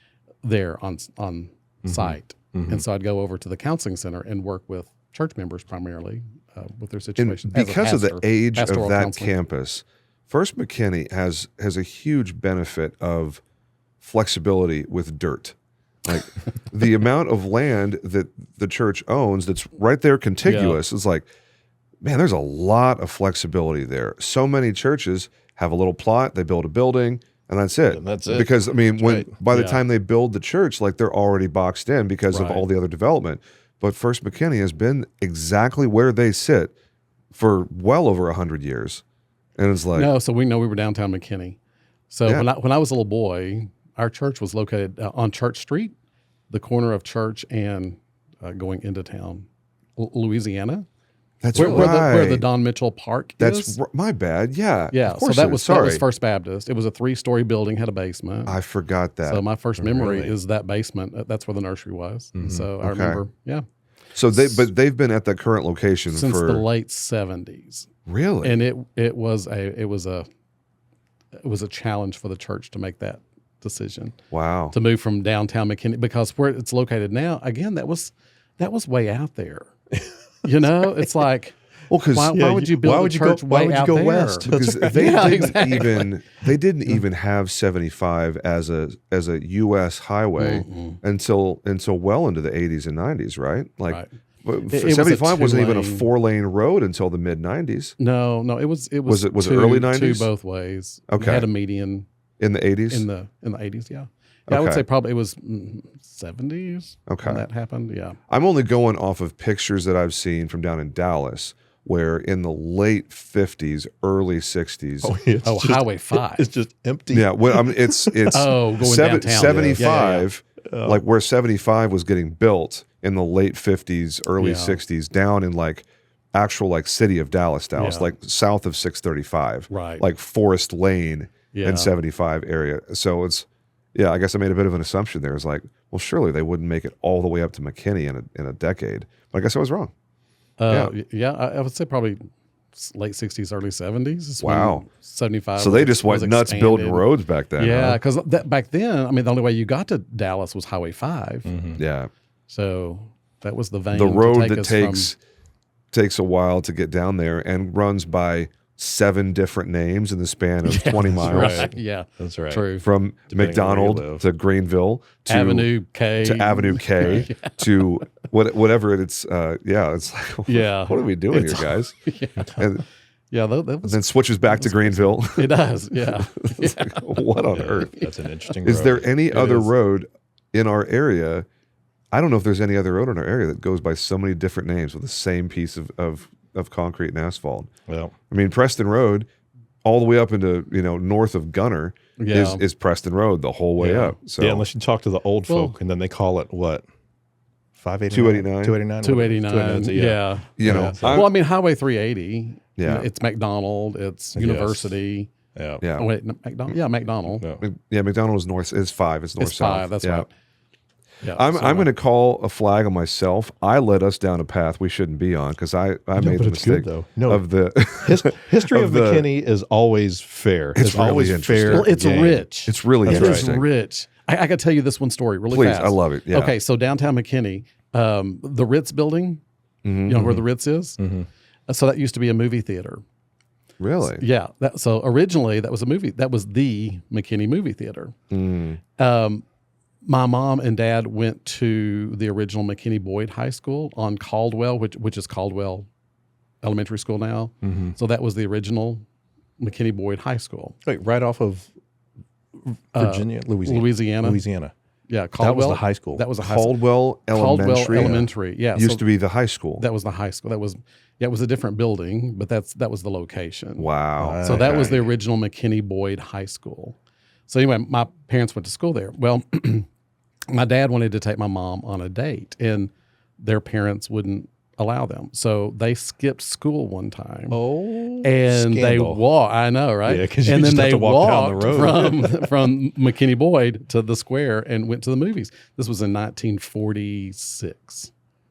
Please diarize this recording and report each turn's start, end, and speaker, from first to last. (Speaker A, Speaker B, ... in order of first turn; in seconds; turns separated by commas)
Speaker A: 0.4-9.4, Speaker B: 1.9-2.8, Speaker C: 7.2-13.4, Speaker C: 14.0-21.3, Speaker A: 20.4-20.8, Speaker C: 22.0-36.7, Speaker B: 27.9-29.3, Speaker A: 29.5-29.8, Speaker A: 32.3-32.6, Speaker C: 37.3-39.0, Speaker C: 39.6-40.1, Speaker A: 39.9-41.6, Speaker A: 42.1-46.0, Speaker A: 46.5-50.9, Speaker C: 51.4-52.5, Speaker A: 51.5-53.8, Speaker C: 53.4-56.0, Speaker A: 54.9-58.6, Speaker C: 58.5-60.4, Speaker A: 59.2-63.6, Speaker B: 62.4-62.7, Speaker C: 62.8-63.2, Speaker C: 64.1-66.7, Speaker A: 66.1-67.9, Speaker C: 68.1-68.6, Speaker A: 68.4-70.3, Speaker A: 71.4-74.2, Speaker C: 74.3-74.8, Speaker A: 74.7-79.7, Speaker A: 80.4-81.6, Speaker C: 81.9-82.4, Speaker A: 82.1-86.1, Speaker B: 82.3-85.7, Speaker C: 84.5-98.0, Speaker A: 90.4-91.0, Speaker A: 94.7-96.1, Speaker A: 98.0-102.1, Speaker C: 99.1-100.3, Speaker C: 101.1-101.5, Speaker C: 102.4-103.1, Speaker A: 102.9-108.2, Speaker C: 104.5-104.8, Speaker C: 107.1-107.4, Speaker C: 108.3-115.2, Speaker B: 115.0-118.5, Speaker A: 115.4-116.5, Speaker C: 117.1-139.9, Speaker A: 118.3-120.3, Speaker B: 119.4-120.1, Speaker B: 120.7-121.0, Speaker A: 124.4-124.8, Speaker A: 127.8-128.1, Speaker A: 129.7-130.1, Speaker A: 131.5-131.9, Speaker A: 140.6-151.5, Speaker C: 140.7-140.9, Speaker C: 144.4-144.9, Speaker C: 145.6-148.0, Speaker B: 151.5-151.8, Speaker C: 151.8-152.1, Speaker A: 152.5-155.1, Speaker C: 153.9-155.2, Speaker C: 155.9-161.7, Speaker A: 160.6-162.9, Speaker B: 161.2-162.7, Speaker C: 162.8-165.7, Speaker B: 163.3-164.3, Speaker A: 165.3-167.6, Speaker C: 166.2-172.8, Speaker A: 170.5-172.7, Speaker A: 173.3-177.2, Speaker C: 173.8-178.0, Speaker B: 177.5-179.1, Speaker C: 178.6-181.5, Speaker A: 179.3-179.7, Speaker C: 182.1-187.7, Speaker B: 187.9-188.1, Speaker C: 188.3-189.3, Speaker C: 189.8-194.7, Speaker A: 192.2-192.6, Speaker B: 193.8-196.8, Speaker A: 195.5-195.8, Speaker B: 197.8-201.3, Speaker C: 198.1-198.8, Speaker A: 199.0-205.3, Speaker C: 200.6-201.3, Speaker C: 202.8-203.1, Speaker B: 204.3-205.0, Speaker B: 205.6-205.8, Speaker C: 205.8-206.1, Speaker A: 206.0-207.4, Speaker C: 207.6-210.3, Speaker A: 209.4-210.3, Speaker A: 211.2-211.9, Speaker C: 211.3-219.3, Speaker B: 216.2-217.4, Speaker B: 218.0-222.5, Speaker C: 220.8-221.9, Speaker A: 221.7-229.4, Speaker C: 222.7-223.7, Speaker B: 223.1-223.6, Speaker C: 225.5-226.6, Speaker C: 229.8-230.3, Speaker A: 230.1-231.0, Speaker B: 231.0-231.3, Speaker A: 231.7-233.0, Speaker C: 233.8-234.2, Speaker A: 234.0-238.2, Speaker C: 238.3-238.8, Speaker A: 239.0-239.4, Speaker A: 240.0-245.9, Speaker A: 246.6-249.0, Speaker B: 247.6-248.0, Speaker A: 249.6-250.8, Speaker B: 250.8-251.7, Speaker B: 252.9-254.7, Speaker A: 253.0-254.4, Speaker A: 255.1-259.0, Speaker B: 255.4-256.3, Speaker C: 256.4-259.8, Speaker B: 258.0-258.3, Speaker A: 259.8-263.9, Speaker C: 263.8-264.5, Speaker B: 264.2-265.1, Speaker A: 264.4-267.0, Speaker A: 267.5-269.9, Speaker A: 270.5-277.6, Speaker B: 277.5-279.3, Speaker A: 278.2-288.1, Speaker B: 280.1-282.5